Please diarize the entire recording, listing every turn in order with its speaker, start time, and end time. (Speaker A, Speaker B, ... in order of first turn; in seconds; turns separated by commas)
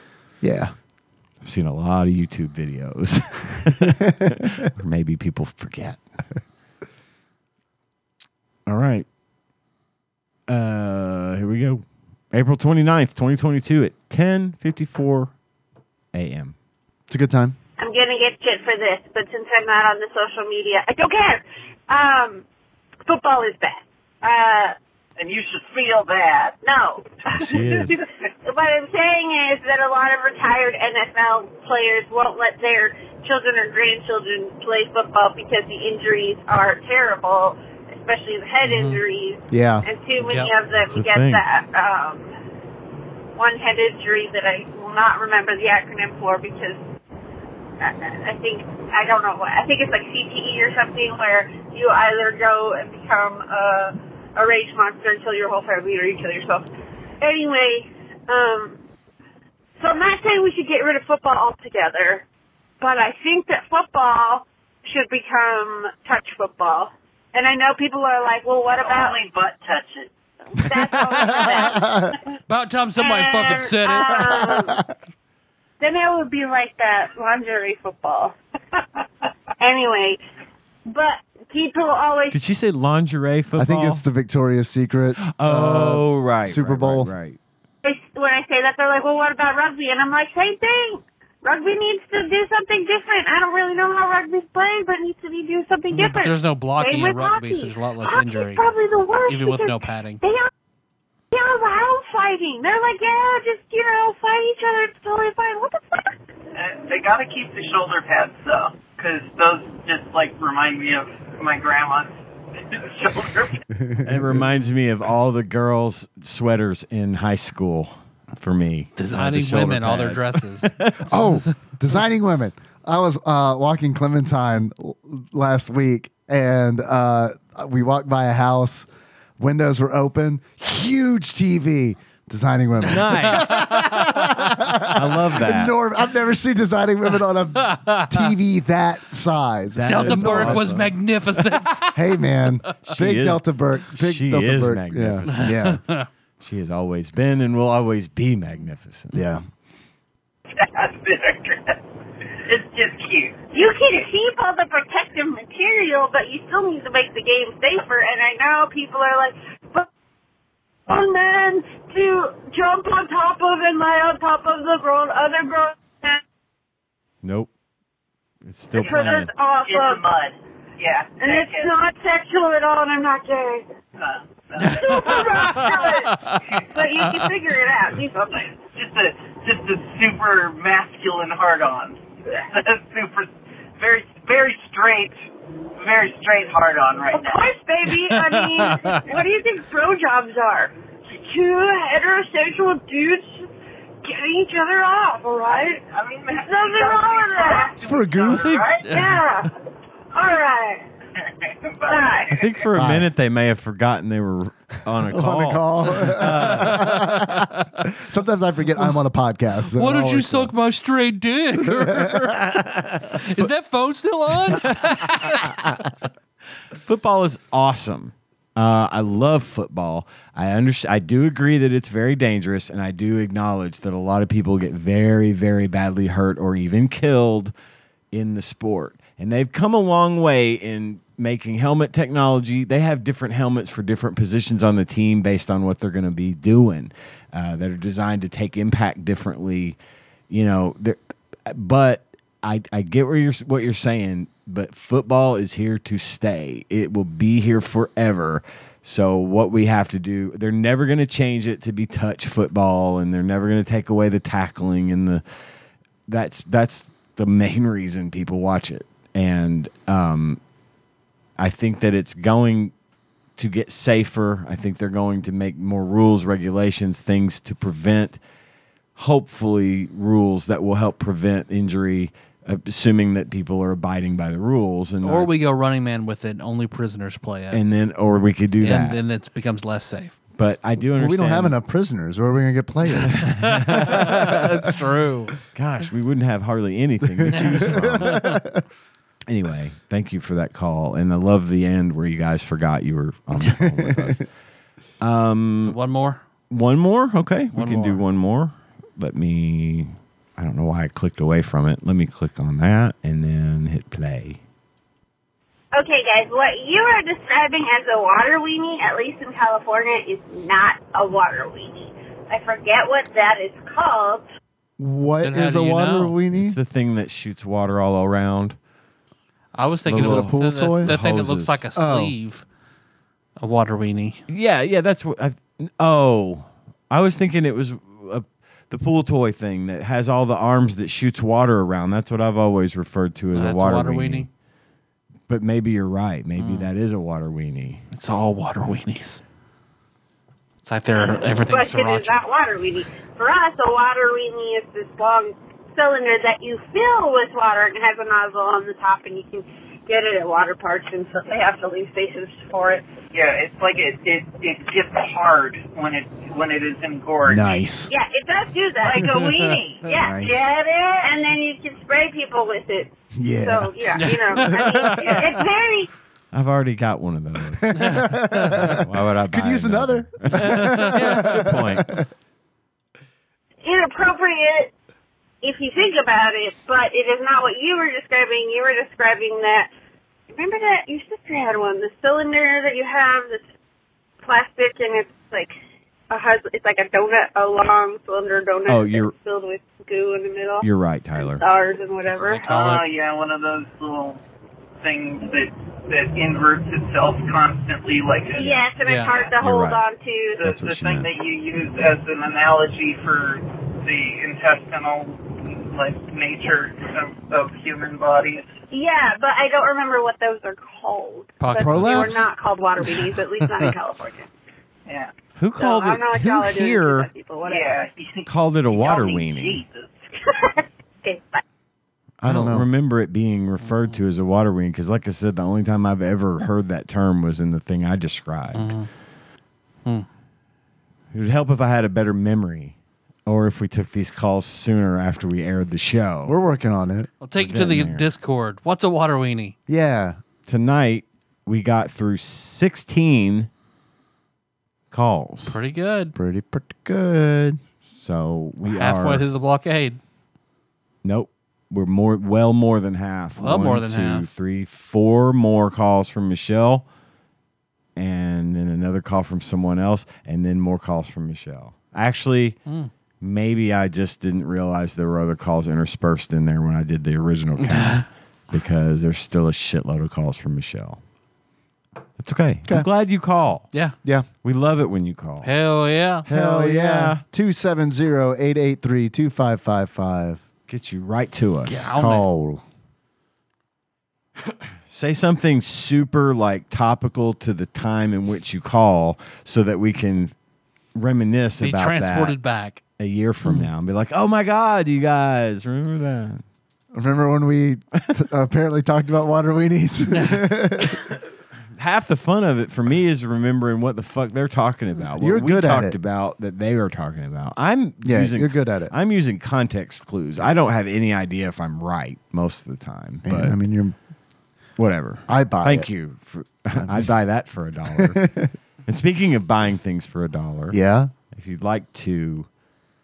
Speaker A: 0.4-0.7, Speaker B: 1.4-6.0, Speaker A: 3.9-4.5, Speaker B: 8.7-9.1, Speaker B: 10.5-15.3, Speaker B: 16.1-16.6, Speaker A: 17.1-17.6, Speaker C: 17.8-22.4, Speaker C: 23.1-24.8, Speaker D: 25.2-26.6, Speaker C: 26.6-42.3, Speaker B: 27.4-28.0, Speaker D: 27.5-27.9, Speaker E: 38.6-39.0, Speaker A: 39.5-39.9, Speaker E: 40.2-40.5, Speaker B: 40.9-41.4, Speaker C: 43.4-46.8, Speaker C: 47.8-56.7, Speaker C: 57.2-58.8, Speaker C: 59.8-62.2, Speaker C: 62.8-69.2, Speaker D: 68.7-70.1, Speaker C: 70.5-72.2, Speaker A: 71.2-72.1, Speaker E: 72.5-74.3, Speaker C: 73.0-74.8, Speaker A: 74.2-74.8, Speaker C: 75.8-78.8, Speaker C: 79.6-80.2, Speaker C: 80.9-82.4, Speaker B: 82.3-84.0, Speaker A: 83.6-87.1, Speaker B: 85.3-87.4, Speaker C: 87.8-100.5, Speaker E: 95.9-98.7, Speaker E: 99.3-100.2, Speaker C: 101.3-106.2, Speaker D: 106.5-113.6, Speaker A: 113.8-114.4, Speaker B: 114.0-121.1, Speaker E: 119.0-121.5, Speaker A: 121.1-128.9, Speaker A: 129.4-140.8, Speaker B: 132.8-135.8, Speaker E: 133.3-134.1, Speaker E: 137.6-138.3, Speaker B: 139.7-141.6, Speaker E: 139.8-141.9, Speaker A: 141.9-145.8, Speaker B: 142.8-145.6, Speaker E: 145.4-146.1, Speaker B: 146.4-149.2, Speaker A: 149.1-149.4, Speaker D: 150.6-151.8, Speaker D: 152.4-153.4, Speaker C: 153.5-159.9, Speaker C: 160.9-166.2, Speaker B: 167.2-167.5, Speaker B: 168.4-169.3, Speaker C: 168.8-170.0, Speaker D: 168.8-171.7, Speaker C: 171.2-173.7, Speaker D: 174.0-175.7, Speaker C: 174.6-178.6, Speaker E: 174.6-176.4, Speaker D: 178.7-185.2, Speaker D: 185.8-187.5, Speaker C: 187.1-193.5, Speaker E: 187.9-189.0, Speaker C: 194.0-195.8, Speaker D: 195.7-198.9, Speaker C: 196.4-197.8, Speaker A: 197.8-198.6, Speaker E: 198.8-199.5, Speaker C: 198.9-199.5, Speaker C: 200.1-200.8, Speaker D: 201.2-202.6, Speaker C: 201.9-202.4, Speaker B: 202.3-207.0, Speaker A: 202.7-203.1, Speaker A: 205.1-210.5, Speaker E: 206.6-207.5, Speaker E: 209.7-215.6, Speaker A: 211.6-213.1, Speaker B: 214.9-215.6, Speaker B: 216.7-227.5, Speaker B: 228.1-239.8, Speaker B: 240.3-255.2, Speaker B: 256.1-260.4, Speaker B: 261.4-262.7, Speaker B: 263.4-268.2, Speaker B: 269.0-275.3, Speaker E: 275.0-277.6, Speaker B: 277.5-279.0, Speaker E: 278.6-280.1, Speaker B: 280.4-281.6, Speaker A: 280.9-283.5, Speaker B: 283.0-284.4, Speaker E: 283.4-285.4, Speaker B: 285.5-288.4, Speaker A: 287.2-288.6, Speaker E: 287.3-287.7, Speaker B: 289.3-294.2, Speaker A: 293.6-294.2, Speaker B: 295.0-295.8, Speaker E: 295.6-296.2, Speaker B: 296.5-304.4, Speaker E: 297.5-298.0, Speaker C: 305.8-314.3, Speaker A: 314.8-316.6, Speaker E: 315.2-316.1, Speaker B: 316.3-318.6, Speaker E: 319.6-322.4, Speaker A: 319.9-320.9, Speaker B: 319.9-321.6, Speaker A: 321.8-322.1, Speaker E: 323.4-324.2, Speaker B: 324.3-334.3, Speaker E: 333.3-334.3, Speaker B: 335.3-337.8, Speaker E: 336.4-336.7, Speaker E: 337.9-339.2, Speaker E: 340.6-342.2, Speaker C: 341.2-352.9, Speaker D: 353.1-357.6, Speaker A: 357.3-357.9, Speaker C: 357.9-365.9, Speaker E: 359.0-359.6, Speaker A: 360.0-360.5, Speaker A: 363.2-363.9, Speaker E: 364.0-365.3, Speaker A: 364.4-365.0, Speaker B: 366.3-367.8, Speaker A: 367.5-372.1, Speaker E: 367.8-368.8, Speaker B: 368.6-372.0, Speaker E: 370.4-371.3, Speaker C: 373.6-374.7, Speaker C: 375.4-379.7, Speaker C: 380.3-383.4, Speaker C: 384.2-385.5, Speaker C: 386.1-390.7, Speaker B: 388.7-389.1, Speaker B: 390.6-391.4, Speaker C: 391.2-392.4, Speaker E: 392.1-392.9, Speaker D: 392.5-394.2, Speaker D: 394.8-399.3, Speaker C: 398.4-400.5, Speaker E: 398.9-399.1, Speaker B: 399.4-399.8, Speaker D: 400.4-408.5, Speaker B: 400.4-401.1, Speaker C: 408.7-414.3, Speaker E: 411.4-412.3, Speaker A: 411.6-412.2, Speaker B: 415.4-417.1, Speaker C: 415.6-417.7, Speaker D: 417.4-419.9, Speaker B: 418.3-419.6, Speaker C: 420.2-421.4, Speaker B: 422.2-428.8, Speaker A: 422.2-422.7, Speaker E: 423.6-424.0, Speaker E: 428.5-428.9, Speaker B: 431.1-436.4, Speaker A: 436.2-437.1, Speaker E: 437.2-439.6, Speaker B: 437.4-438.1, Speaker A: 439.7-440.2, Speaker B: 440.5-443.5, Speaker B: 444.9-445.6, Speaker E: 445.5-446.1, Speaker A: 446.1-447.6, Speaker B: 448.0-449.2, Speaker E: 448.6-450.0, Speaker B: 451.0-456.9, Speaker E: 453.4-454.3, Speaker B: 458.0-462.6, Speaker B: 463.2-471.0, Speaker E: 467.6-468.1, Speaker B: 472.2-473.7, Speaker B: 474.4-475.5, Speaker E: 475.4-476.3, Speaker B: 476.2-477.2, Speaker A: 476.3-480.4, Speaker B: 480.7-481.9, Speaker E: 481.7-482.3, Speaker A: 481.8-482.6, Speaker B: 484.4-490.3, Speaker B: 490.9-492.4, Speaker E: 491.6-492.8, Speaker B: 493.0-496.4, Speaker A: 496.9-501.1, Speaker B: 501.8-513.6, Speaker A: 505.2-506.0, Speaker A: 508.0-508.9, Speaker A: 513.2-514.0, Speaker B: 514.8-518.2, Speaker A: 515.3-515.9, Speaker A: 516.8-517.1, Speaker A: 517.9-518.5, Speaker B: 518.9-520.8, Speaker A: 520.7-521.1, Speaker B: 521.3-522.5